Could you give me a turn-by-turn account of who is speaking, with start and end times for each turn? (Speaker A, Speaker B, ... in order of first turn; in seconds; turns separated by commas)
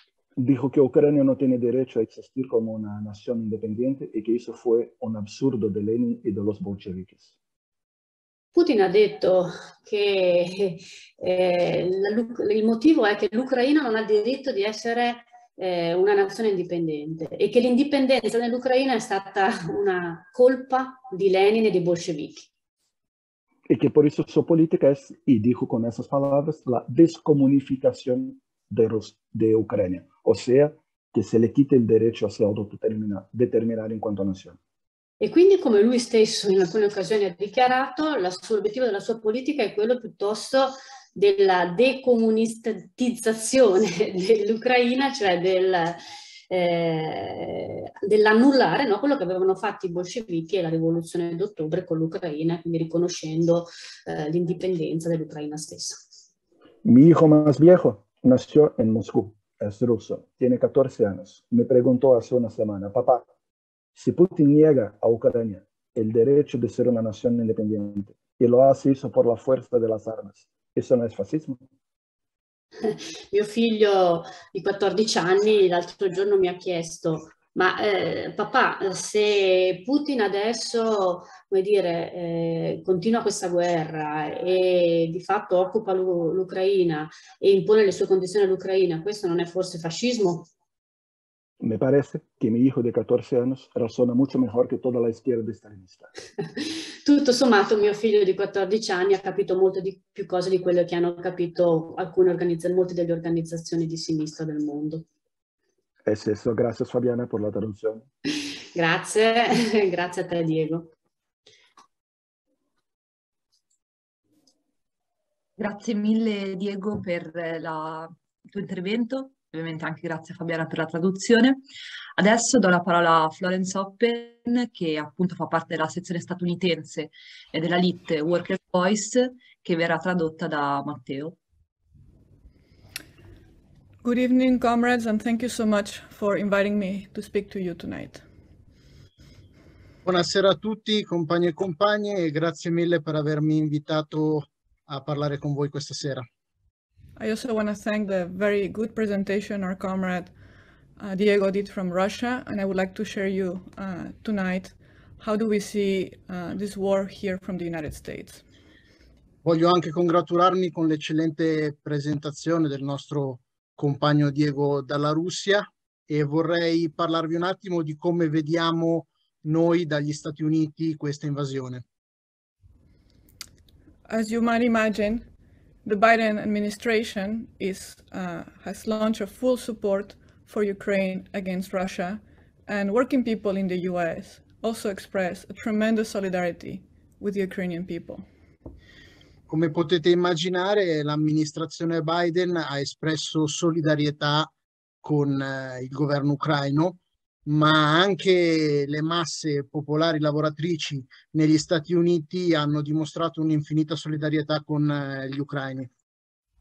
Speaker A: 0.4-7.3, Speaker B: 8.5-22.5, Speaker A: 23.7-34.6, Speaker B: 35.2-56.0, Speaker A: 56.8-63.2, Speaker A: 64.0-71.6, Speaker B: 72.8-90.5, Speaker A: 91.6-96.1, Speaker B: 97.0-105.0, Speaker A: 106.0-108.1, Speaker B: 108.7-110.9, Speaker C: 115.6-121.6, Speaker C: 122.2-131.3, Speaker D: 134.0-138.2, Speaker E: 140.0-146.2, Speaker D: 147.2-150.3, Speaker D: 151.0-158.4, Speaker E: 159.4-171.8, Speaker D: 174.1-175.2, Speaker D: 175.8-188.2, Speaker E: 189.5-194.5, Speaker E: 195.0-205.9